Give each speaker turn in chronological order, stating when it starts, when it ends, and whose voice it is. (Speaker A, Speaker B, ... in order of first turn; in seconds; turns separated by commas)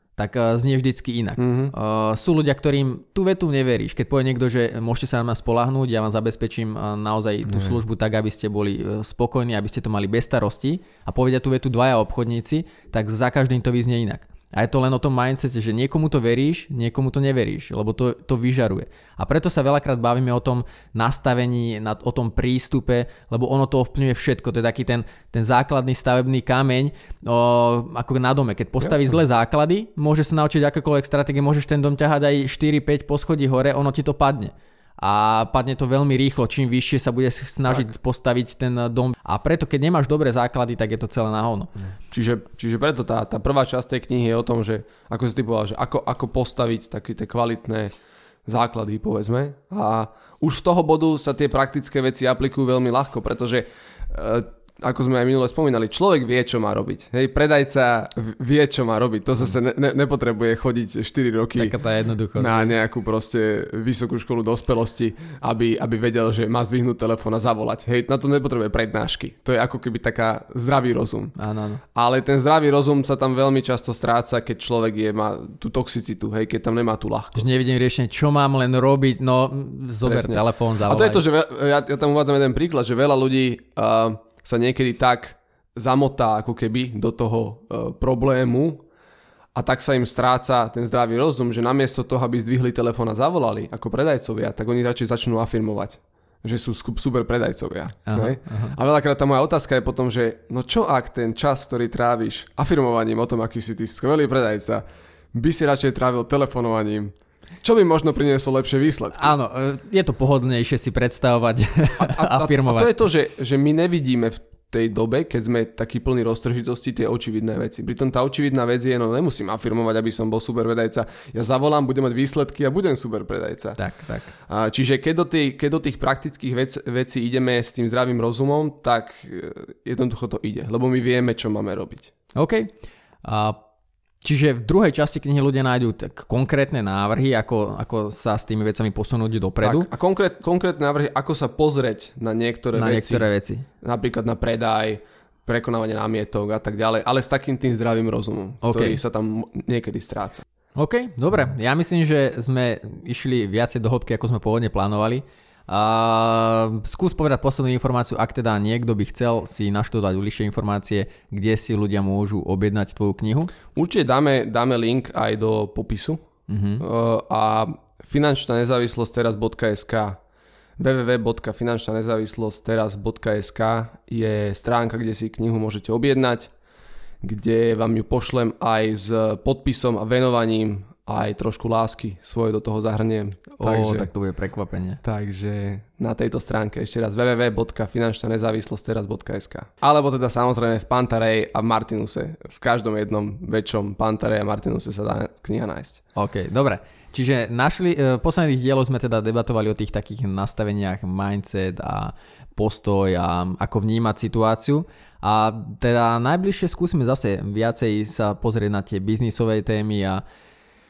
Speaker A: 0.2-41.7, Speaker B: 1.4-1.7, Speaker B: 28.8-29.2, Speaker B: 42.1-47.9, Speaker B: 48.5-61.7, Speaker A: 61.6-62.7, Speaker B: 62.4-71.3, Speaker A: 71.4-71.8, Speaker B: 71.9-77.6, Speaker A: 77.3-81.2, Speaker B: 80.0-88.8, Speaker B: 89.5-104.8, Speaker A: 98.1-98.7, Speaker B: 105.3-107.1, Speaker B: 107.6-109.3, Speaker A: 109.1-112.9, Speaker B: 112.0-123.8, Speaker A: 123.8-124.3, Speaker B: 124.5-132.1, Speaker A: 132.3-132.7, Speaker A: 133.2-133.6, Speaker A: 134.2-139.9, Speaker B: 139.6-143.3, Speaker A: 142.7-143.7, Speaker B: 143.8-150.4, Speaker A: 148.6-149.0, Speaker A: 150.7-163.5, Speaker B: 163.7-166.2, Speaker A: 166.5-166.8, Speaker B: 166.8-170.2, Speaker B: 170.8-176.5, Speaker B: 177.2-184.1, Speaker A: 183.6-185.0, Speaker B: 185.0-196.0, Speaker A: 196.1-210.2